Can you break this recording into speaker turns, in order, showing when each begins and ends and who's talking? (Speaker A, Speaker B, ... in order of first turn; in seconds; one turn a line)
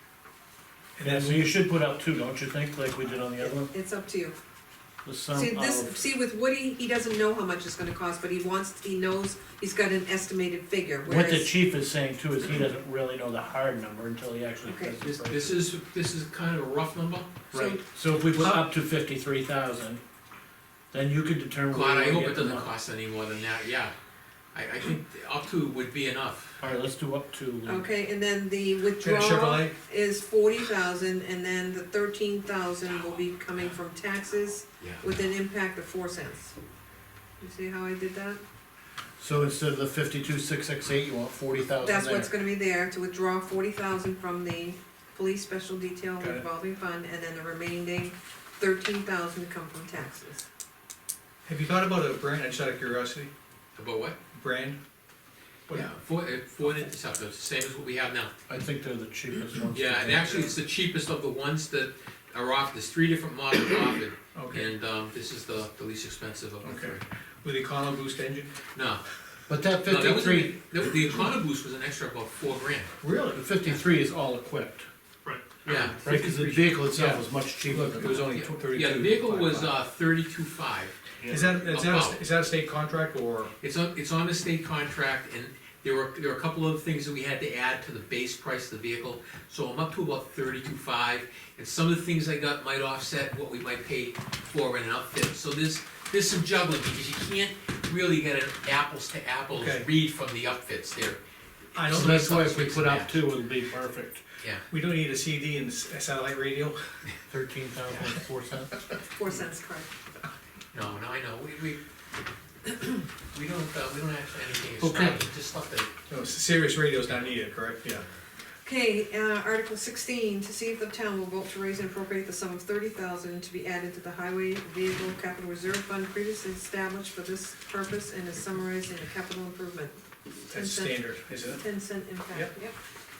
Speaker A: 0.9-1.5
Speaker B: 1.0-3.7
Speaker C: 3.4-4.3
Speaker B: 5.0-6.0
Speaker C: 5.3-11.5
Speaker B: 11.1-15.6
Speaker C: 14.7-14.9
Speaker D: 15.2-17.3
Speaker B: 17.5-20.0
Speaker C: 17.5-17.8
Speaker B: 20.9-22.7
Speaker D: 21.7-23.9
Speaker D: 24.5-26.6
Speaker B: 26.6-27.9
Speaker C: 27.6-36.5
Speaker A: 29.0-29.7
Speaker D: 34.8-35.0
Speaker C: 37.4-38.4
Speaker B: 39.2-42.3
Speaker C: 41.8-50.4
Speaker A: 51.4-53.3
Speaker D: 53.7-54.2
Speaker A: 54.3-54.8
Speaker D: 55.7-58.3
Speaker B: 58.5-60.5
Speaker D: 59.7-67.0
Speaker A: 64.3-64.7
Speaker A: 66.6-68.5
Speaker D: 68.7-69.0
Speaker B: 69.5-70.5
Speaker D: 69.8-72.9
Speaker A: 73.0-73.4
Speaker B: 73.3-74.8
Speaker A: 75.2-79.7
Speaker D: 75.6-76.5
Speaker B: 75.9-78.4
Speaker D: 78.3-81.0
Speaker B: 81.2-81.5
Speaker A: 81.3-83.5
Speaker D: 81.6-82.2
Speaker D: 83.6-101.2
Speaker A: 99.5-99.8
Speaker D: 101.7-103.1
Speaker A: 101.7-102.2
Speaker B: 101.9-104.2
Speaker A: 104.7-106.8
Speaker B: 107.3-108.7
Speaker C: 109.1-109.9
Speaker D: 110.7-111.8
Speaker D: 113.3-115.9
Speaker B: 114.8-115.2
Speaker A: 116.1-118.0
Speaker C: 118.6-130.0
Speaker A: 130.5-131.6
Speaker C: 130.5-132.7